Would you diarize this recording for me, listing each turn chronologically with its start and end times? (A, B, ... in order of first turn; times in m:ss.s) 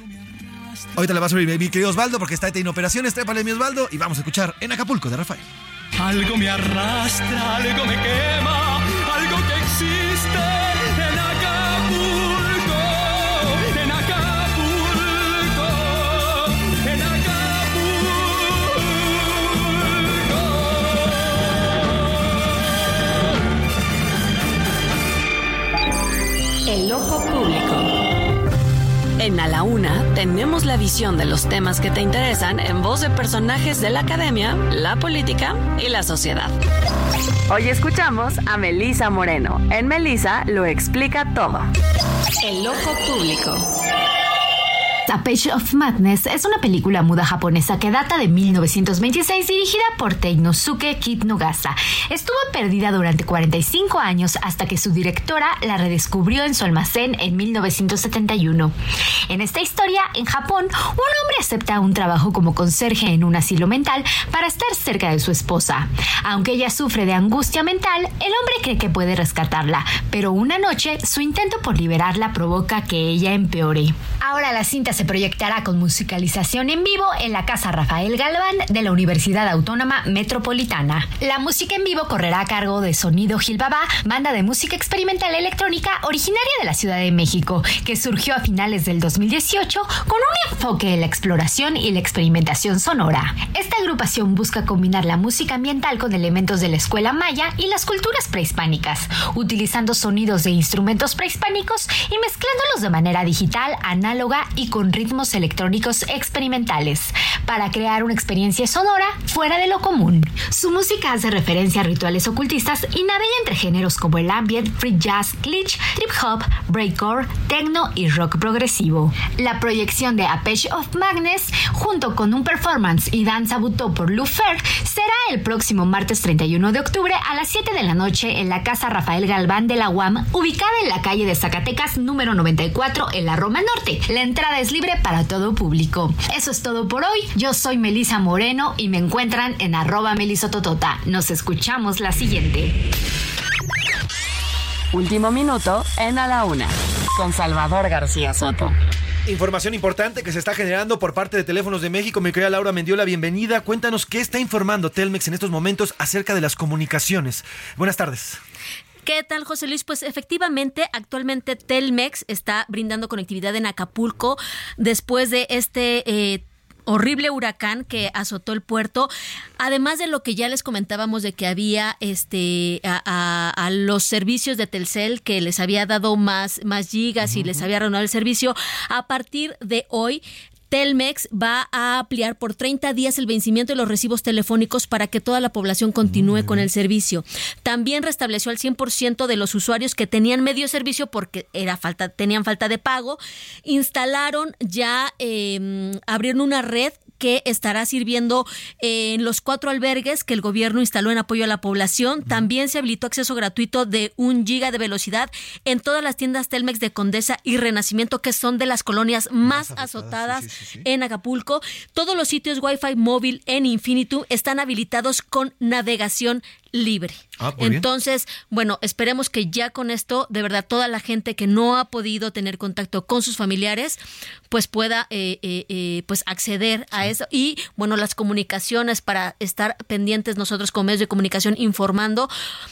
0:00.3-0:00.7 A
0:00.9-0:05.4 B
0:06.0-0:19.0 A
0:19.6-0:20.8 A
0:26.6-0:27.9 C
0:29.2-0:36.5 C
0:37.5-0:41.7 C
0:42.4-0:43.6 C
0:45.0-0:58.7 D
0:59.3-2:22.8 D
2:24.9-2:28.7 C
2:29.2-2:38.4 B
2:39.0-2:49.1 E
2:49.6-3:52.3 E
2:57.2-2:57.7 B
3:06.0-3:06.7 B
3:22.2-3:22.5 B
3:29.4-3:30.9 B
3:37.4-3:37.8 B